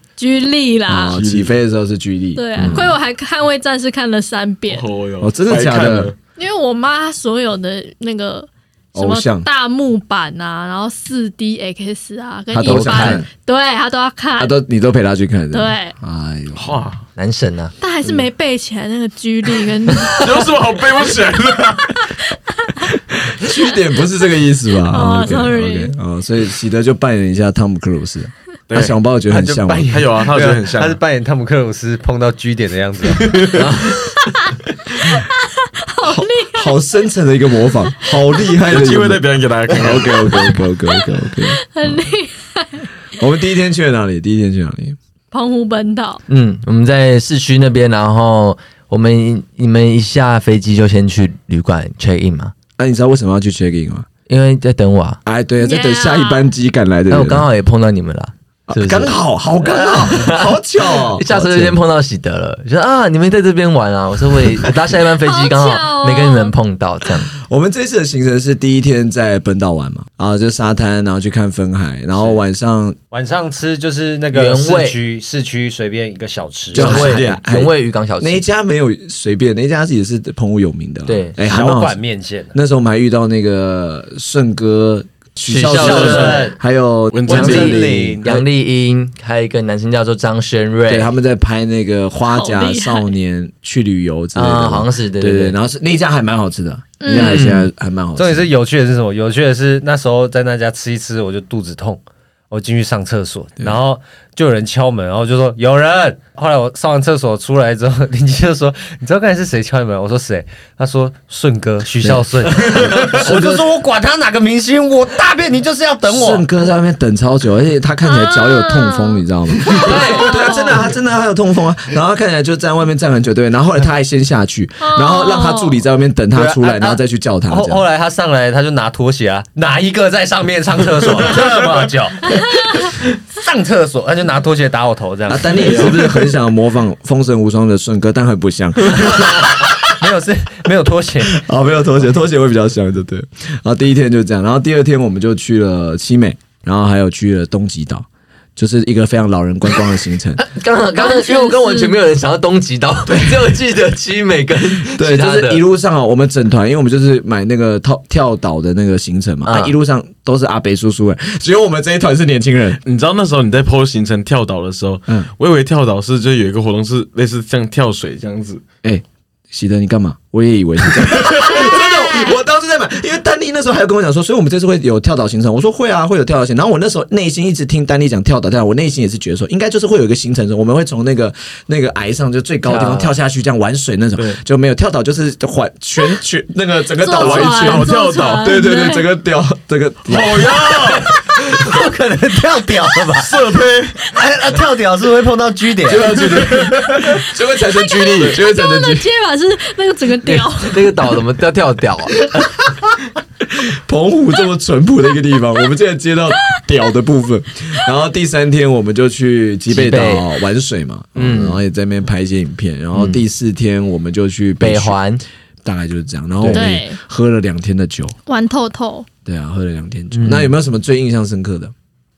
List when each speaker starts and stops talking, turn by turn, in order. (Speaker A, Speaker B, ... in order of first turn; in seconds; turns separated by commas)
Speaker A: 0.2-1.1, Speaker B: 0.9-3.0, Speaker C: 1.1-1.5, Speaker A: 2.4-4.8, Speaker C: 4.7-6.1, Speaker B: 5.2-6.1, Speaker A: 6.4-14.5, Speaker B: 8.9-9.4, Speaker B: 12.5-13.3, Speaker D: 12.6-13.2, Speaker B: 14.4-16.8, Speaker A: 15.5-15.9, Speaker C: 16.5-17.0, Speaker D: 17.2-17.7, Speaker A: 17.8-20.5, Speaker C: 20.1-22.1, Speaker B: 23.1-30.0, Speaker A: 24.9-25.9, Speaker C: 28.7-28.9, Speaker E: 29.3-33.7, Speaker C: 29.9-31.0, Speaker C: 33.1-33.9, Speaker D: 33.5-34.0, Speaker A: 35.0-36.8, Speaker B: 36.0-41.6, Speaker C: 38.6-40.6, Speaker A: 40.9-42.9, Speaker B: 43.2-45.0, Speaker A: 45.3-46.2, Speaker D: 46.3-52.5, Speaker B: 52.8-54.1, Speaker D: 54.3-55.2, Speaker B: 55.2-57.5, Speaker A: 55.6-56.5, Speaker D: 57.1-67.3, Speaker B: 58.7-61.8, Speaker A: 65.2-66.5, Speaker B: 67.4-73.0, Speaker E: 73.1-77.2, Speaker D: 74.3-75.0, Speaker B: 76.7-82.0, Speaker D: 76.7-78.4, Speaker D: 81.1-81.3, Speaker E: 81.4-82.5, Speaker B: 82.5-88.3, Speaker D: 85.4-86.5, Speaker E: 85.7-86.6, Speaker C: 87.1-87.8, Speaker E: 87.3-88.4, Speaker D: 87.3-91.1, Speaker B: 90.9-98.5, Speaker A: 92.3-93.1, Speaker D: 94.3-95.6, Speaker A: 97.0-97.4, Speaker D: 97.1-97.7, Speaker E: 98.2-116.5, Speaker B: 112.0-113.6, Speaker B: 116.1-127.8, Speaker A: 118.0-120.8, Speaker E: 119.8-120.7, Speaker A: 124.8-125.8, Speaker E: 126.3-136.0, Speaker B: 135.3-139.6, Speaker E: 139.0-141.4, Speaker B: 141.2-150.4, Speaker D: 150.4-155.6, Speaker A: 150.9-152.0, Speaker B: 153.1-153.4, Speaker B: 154.9-162.8, Speaker D: 159.5-159.7, Speaker C: 162.8-168.6, Speaker B: 168.8-190.9, Speaker C: 171.2-171.4, Speaker A: 171.4-172.4, Speaker D: 182.7-183.1, Speaker A: 187.0-189.1, Speaker C: 187.1-188.6, Speaker C: 190.1-191.1, Speaker E: 190.8-193.4, Speaker C: 193.1-194.1, Speaker E: 194.1-196.2, Speaker B: 195.9-199.1, Speaker C: 196.0-197.0, Speaker A: 197.7-201.0, Speaker D: 200.2-202.3, Speaker B: 203.5-215.0, Speaker D: 209.7-210.2, Speaker D: 211.2-211.6, Speaker D: 212.9-213.2, Speaker D: 214.6-215.2, Speaker B: 215.6-218.2, Speaker D: 216.4-216.7, Speaker A: 216.5-217.0, Speaker A: 218.2-219.1, Speaker B: 219.2-221.7, Speaker D: 220.1-220.5